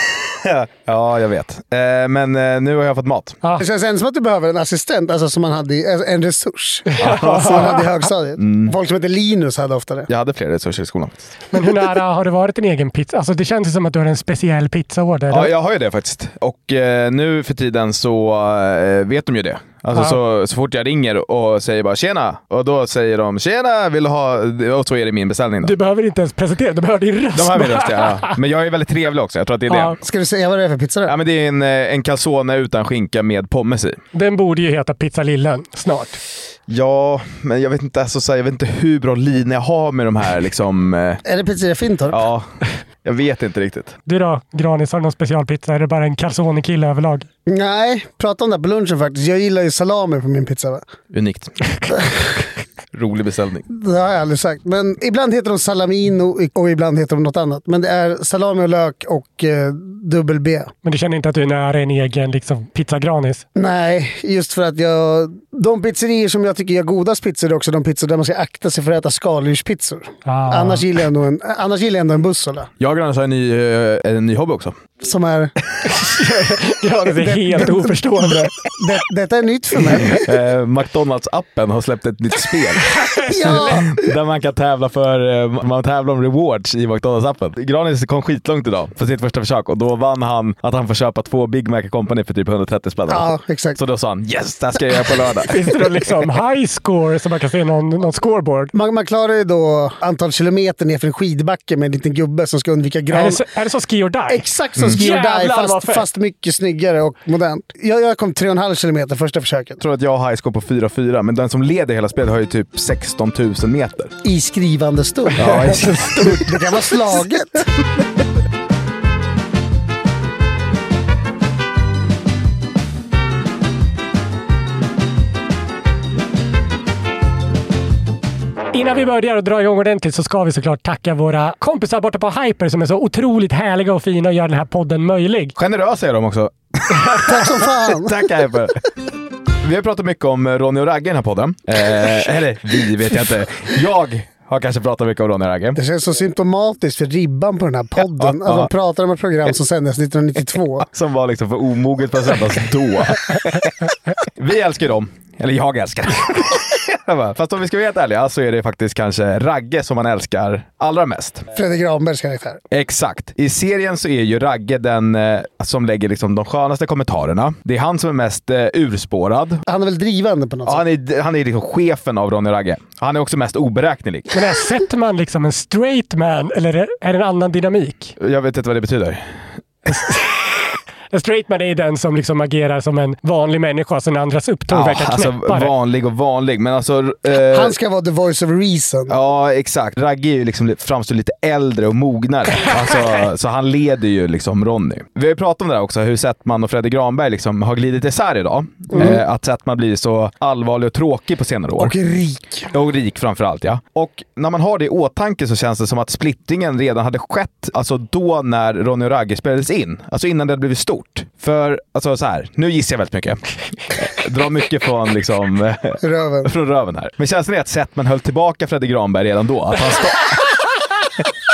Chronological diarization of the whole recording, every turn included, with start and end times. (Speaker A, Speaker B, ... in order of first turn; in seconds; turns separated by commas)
Speaker A: 0.3-3.4, Speaker B: 3.6-10.1, Speaker C: 6.9-7.8, Speaker A: 7.0-7.8, Speaker A: 8.4-8.7, Speaker A: 10.1-11.3, Speaker C: 11.5-15.5, Speaker A: 15.3-25.8, Speaker C: 25.6-28.3, Speaker A: 27.3-30.0, Speaker C: 29.7-29.9, Speaker B: 30.0-31.1, Speaker A: 31.1-34.0, Speaker C: 34.1-36.2, Speaker A: 36.7-41.2, Speaker B: 41.2-42.2, Speaker A: 42.1-42.5, Speaker A: 43.0-43.9, Speaker C: 44.0-47.3, Speaker B: 47.5-50.9, Speaker A: 51.1-52.3, Speaker A: 52.9-53.6, Speaker B: 53.7-60.7, Speaker C: 60.8-63.4, Speaker B: 63.5-72.7, Speaker C: 70.2-70.8, Speaker A: 72.8-74.8, Speaker B: 75.0-75.5, Speaker C: 75.9-78.5, Speaker B: 77.2-77.9, Speaker B: 78.8-80.2, Speaker A: 80.1-95.6, Speaker B: 83.2-84.0, Speaker C: 83.3-83.7, Speaker B: 93.1-93.8, Speaker C: 95.5-98.7, Speaker B: 98.7-103.4, Speaker C: 103.1-106.1, Speaker B: 104.3-109.8, Speaker A: 109.8-114.1, Speaker B: 114.2-117.7, Speaker A: 115.4-116.4, Speaker C: 115.5-116.5, Speaker C: 128.7-135.5, Speaker A: 135.6-137.4, Speaker B: 137.2-138.2, Speaker A: 137.9-138.8, Speaker A: 139.6-145.8, Speaker B: 145.7-150.9, Speaker A: 148.2-148.7, Speaker A: 150.9-161.4, Speaker B: 161.5-162.6, Speaker A: 162.7-169.6, Speaker B: 169.7-170.8, Speaker A: 170.7-174.3, Speaker C: 174.3-178.1, Speaker A: 178.2-179.2, Speaker C: 179.9-180.3, Speaker C: 181.1-185.7, Speaker A: 184.7-187.7, Speaker B: 187.3-189.2, Speaker A: 189.1-201.9, Speaker B: 198.9-199.2, Speaker B: 201.8-202.7, Speaker A: 202.7-220.6, Speaker B: 216.0-216.5